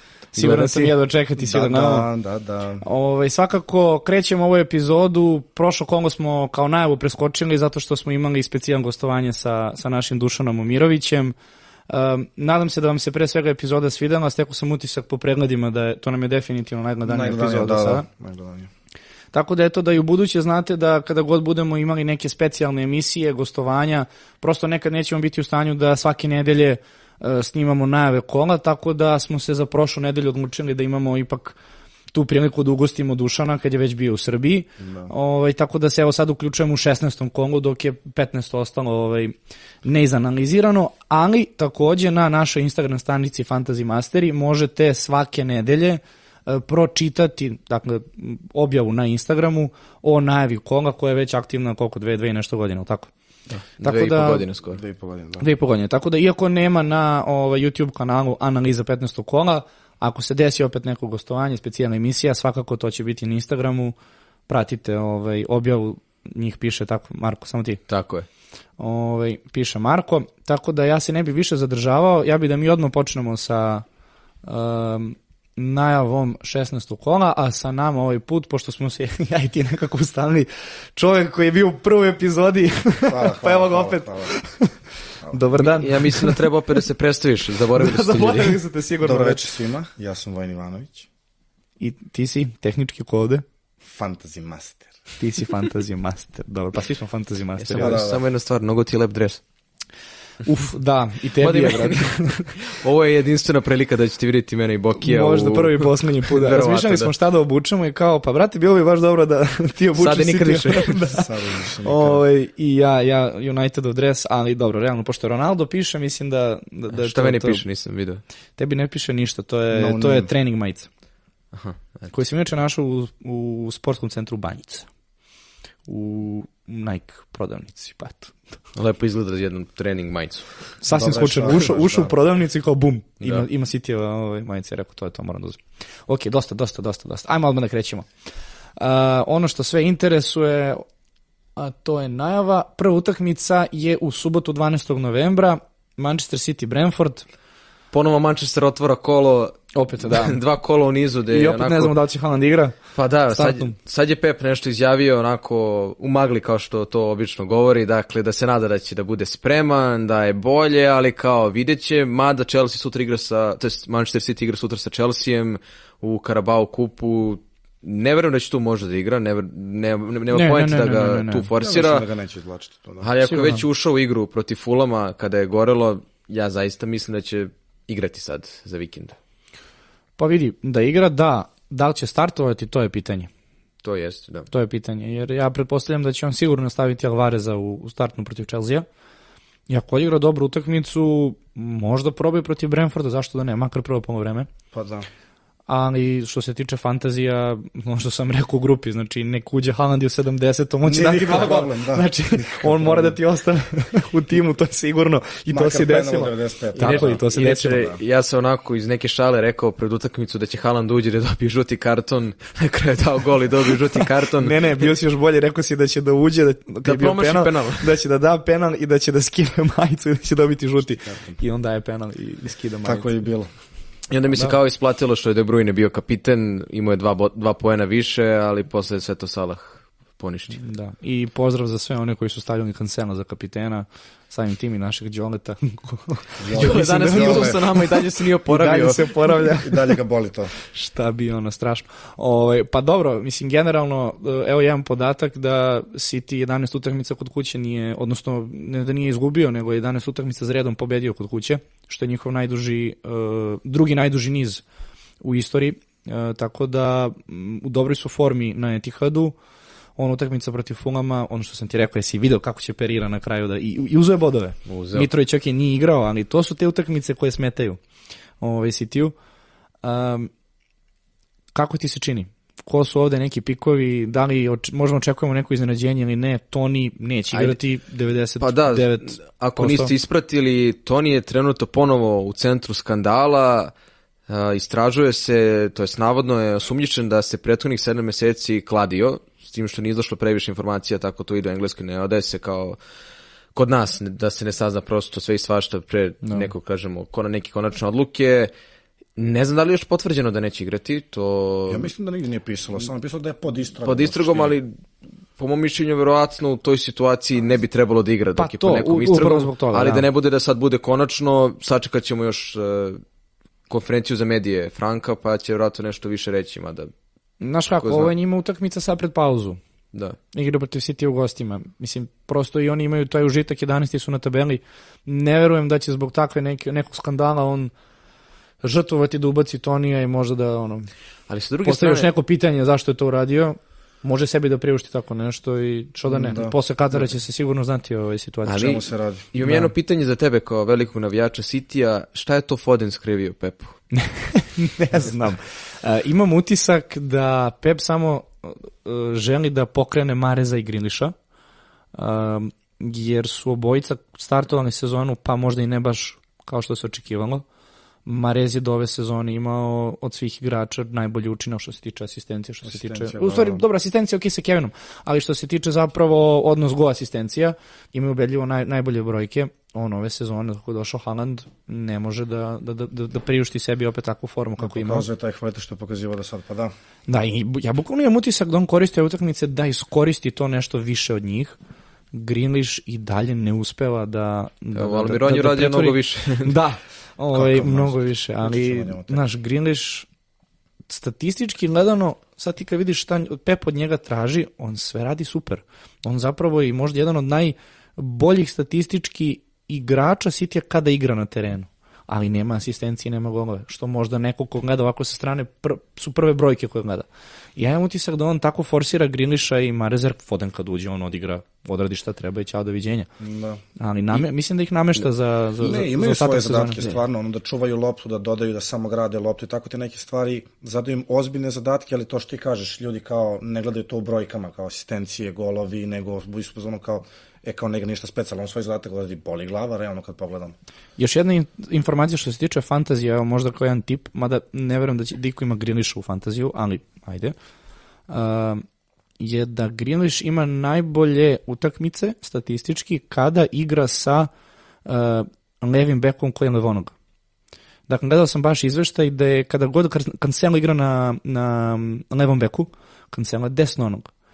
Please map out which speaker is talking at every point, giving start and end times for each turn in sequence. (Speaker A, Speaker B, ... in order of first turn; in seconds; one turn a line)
Speaker A: 0.3-2.1
Speaker B: 0.4-0.9
Speaker C: 1.4-2.8
Speaker A: 2.8-11.3
Speaker A: 11.9-18.0
Speaker C: 17.1-18.7
Speaker A: 19.3-31.6
Speaker A: 32.1-53.1
Speaker C: 34.8-35.1
Speaker B: 53.5-54.8
Speaker A: 53.8-54.5
Speaker C: 54.7-55.5
Speaker A: 55.4-63.9
Speaker A: 64.5-67.8
Speaker B: 67.9-68.3
Speaker A: 68.8-73.8
Speaker A: 74.4-86.5
Speaker C: 83.1-84.3
Speaker B: 85.5-88.6
Speaker A: 87.6-89.4
Speaker C: 89.0-91.1
Speaker A: 91.8-93.4
Speaker C: 93.8-94.9
Speaker A: 95.2-98.0
Speaker B: 97.6-99.4
Speaker C: 97.8-98.2
Speaker A: 100.4-102.5
Speaker B: 101.4-107.1
Speaker A: 105.0-117.6
Speaker B: 110.0-111.0
Speaker C: 111.1-112.2
Speaker B: 116.9-118.2
Speaker A: 118.6-120.9
Speaker C: 119.7-120.3
Speaker B: 121.5-122.1
Speaker A: 122.1-124.9
Speaker A: 125.9-128.3
Speaker B: 128.7-130.7
Speaker A: 130.8-138.1
Speaker C: 130.9-132.2
Speaker A: 138.8-140.8
Speaker A: 141.6-147.2
Speaker B: 147.9-151.9
Speaker A: 149.7-150.4
Speaker A: 151.3-152.8
Speaker B: 152.9-172.1
Speaker A: 153.3-153.7
Speaker A: 170.3-171.5
Speaker C: 171.6-173.1
Speaker B: 173.0-179.2
Speaker A: 173.2-173.6
Speaker A: 180.2-183.3
Speaker B: 183.8-184.5
Speaker A: 184.5-188.8
Speaker A: 189.7-194.5
Speaker C: 194.7-195.1
Speaker A: 195.7-207.8
Speaker C: 200.8-203.2
Speaker C: 205.5-208.0
Speaker B: 206.8-214.7
Speaker A: 214.4-223.2
Speaker B: 216.8-217.9
Speaker C: 220.8-221.4
Speaker C: 222.8-223.5
Speaker B: 224.1-230.6
Speaker A: 230.6-240.0
Speaker C: 236.4-237.6
Speaker B: 236.6-239.0
Speaker C: 239.6-240.5
Speaker A: 240.7-254.6
Speaker A: 255.2-259.3
Speaker A: 260.0-267.8
Speaker B: 264.7-265.1
Speaker A: 268.4-269.1
Speaker A: 269.8-270.3
Speaker A: 271.5-279.9
Speaker B: 277.3-277.6
Speaker B: 278.4-283.7
Speaker B: 284.3-292.8
Speaker B: 293.5-298.5
Speaker A: 296.2-296.5
Speaker B: 299.1-301.9
Speaker C: 301.7-304.5
Speaker B: 303.8-304.7
Speaker B: 305.4-313.0
Speaker A: 308.4-310.1
Speaker B: 313.7-316.9
Speaker A: 317.4-319.6
Speaker B: 317.8-318.1
Speaker A: 320.3-327.7
Speaker A: 328.6-330.9
Speaker B: 331.3-332.1
Speaker A: 331.6-338.8
Speaker C: 336.1-336.5
Speaker B: 338.4-343.8
Speaker C: 338.6-339.2
Speaker A: 339.4-339.7
Speaker A: 343.9-351.1
Speaker A: 351.9-357.4
Speaker A: 358.1-375.1
Speaker C: 362.6-363.6
Speaker C: 374.6-376.7
Speaker A: 377.1-381.6
Speaker A: 382.1-390.1
Speaker B: 384.7-386.6
Speaker C: 387.3-389.2
Speaker A: 390.9-413.1
Speaker C: 413.2-413.6
Speaker A: 413.8-416.8
Speaker C: 415.6-430.5
Speaker A: 431.0-437.3
Speaker A: 438.1-438.6
Speaker A: 439.2-444.3
Speaker A: 444.9-446.9
Speaker A: 447.9-454.1